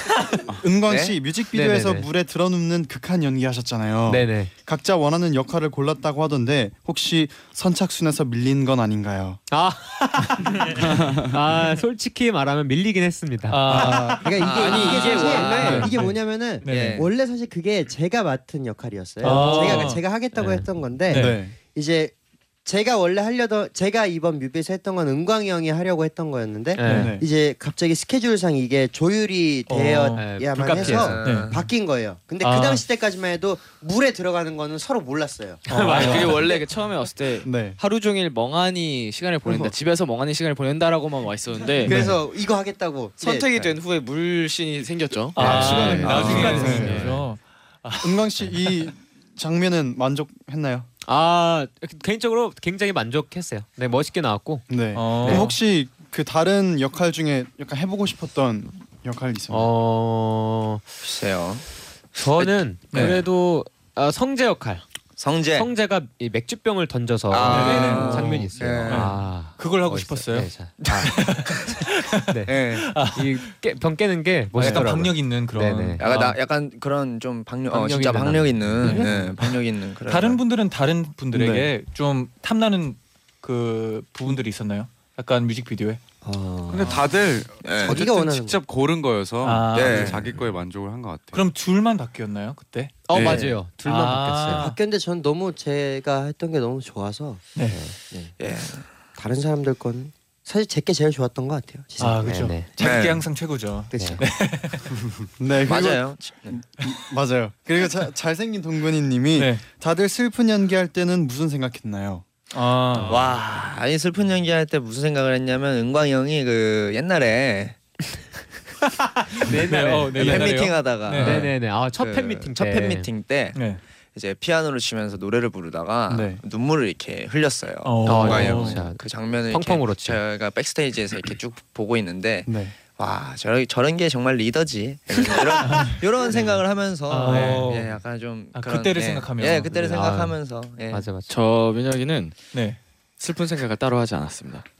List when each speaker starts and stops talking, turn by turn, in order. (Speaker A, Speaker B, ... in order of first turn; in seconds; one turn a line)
Speaker A: 0.6-9.4
Speaker B: 0.9-1.1
Speaker C: 1.5-2.1
Speaker C: 4.1-4.5
Speaker C: 9.5-13.6
Speaker D: 10.8-11.4
Speaker E: 13.5-14.6
Speaker A: 13.7-14.2
Speaker F: 13.8-22.1
Speaker B: 14.4-15.9
Speaker G: 14.5-15.9
Speaker C: 14.8-15.9
Speaker E: 15.6-17.1
Speaker B: 16.6-17.1
Speaker E: 19.2-20.0
Speaker C: 19.2-20.7
Speaker E: 21.1-21.4
Speaker A: 21.1-21.5
Speaker F: 22.6-35.6
Speaker C: 26.8-27.1
Speaker E: 26.8-27.1
Speaker A: 26.9-27.2
Speaker E: 29.7-30.3
Speaker C: 30.1-31.2
Speaker B: 30.8-31.7
Speaker E: 31.2-31.6
Speaker E: 32.4-32.9
Speaker A: 35.7-36.4
Speaker G: 35.7-42.0
Speaker E: 35.7-36.2
Speaker C: 35.7-36.3
Speaker A: 37.4-37.8
Speaker F: 41.8-43.7
Speaker A: 41.9-42.2
Speaker G: 43.2-47.1
Speaker E: 45.4-48.8
Speaker C: 45.4-47.2
Speaker A: 45.4-47.1
Speaker A: 48.0-50.9
Speaker C: 51.0-55.5
Speaker A: 54.7-59.7
Speaker E: 54.9-55.5
Speaker C: 59.5-60.8
Speaker B: 61.0-61.6
Speaker C: 62.1-64.8
Speaker E: 62.9-63.2
Speaker B: 65.2-65.7
Speaker C: 65.5-71.1
Speaker B: 67.3-69.2
Speaker E: 67.5-73.5
Speaker B: 70.8-71.2
Speaker C: 72.3-76.0
Speaker B: 72.5-72.9
Speaker E: 74.5-76.4
Speaker B: 76.0-80.4
Speaker C: 77.7-79.3
Speaker E: 78.8-79.1
Speaker E: 80.1-86.0
Speaker A: 81.3-81.7
Speaker F: 86.2-87.0
Speaker D: 86.7-91.4
Speaker B: 87.6-88.0
Speaker F: 87.8-88.6
Speaker E: 89.4-90.2
Speaker B: 89.7-90.3
Speaker E: 91.3-94.8
Speaker C: 93.1-94.7
Speaker D: 93.1-93.4
Speaker F: 94.5-97.4
Speaker B: 98.4-98.9
Speaker F: 99.2-102.4
Speaker E: 102.0-104.9
Speaker C: 102.2-102.7
Speaker B: 102.8-103.2
Speaker C: 103.9-104.2
Speaker A: 105.4-112.2
Speaker B: 105.6-106.6
Speaker E: 109.3-109.6
Speaker E: 112.5-113.2
Speaker B: 113.0-117.8
Speaker C: 119.3-120.4
Speaker E: 119.5-121.5
Speaker B: 120.2-123.6
Speaker A: 120.2-120.5
Speaker C: 121.1-123.1
Speaker E: 123.5-123.8
Speaker B: 124.1-141.1
Speaker A: 126.1-126.4
Speaker E: 127.8-128.8
Speaker C: 128.0-130.2
Speaker A: 132.4-132.8
Speaker E: 135.6-136.5
Speaker E: 137.1-138.0
Speaker E: 138.5-139.8
Speaker C: 139.8-140.3
Speaker C: 140.9-141.3
Speaker G: 141.3-142.4
Speaker E: 142.5-142.8
Speaker G: 143.2-144.7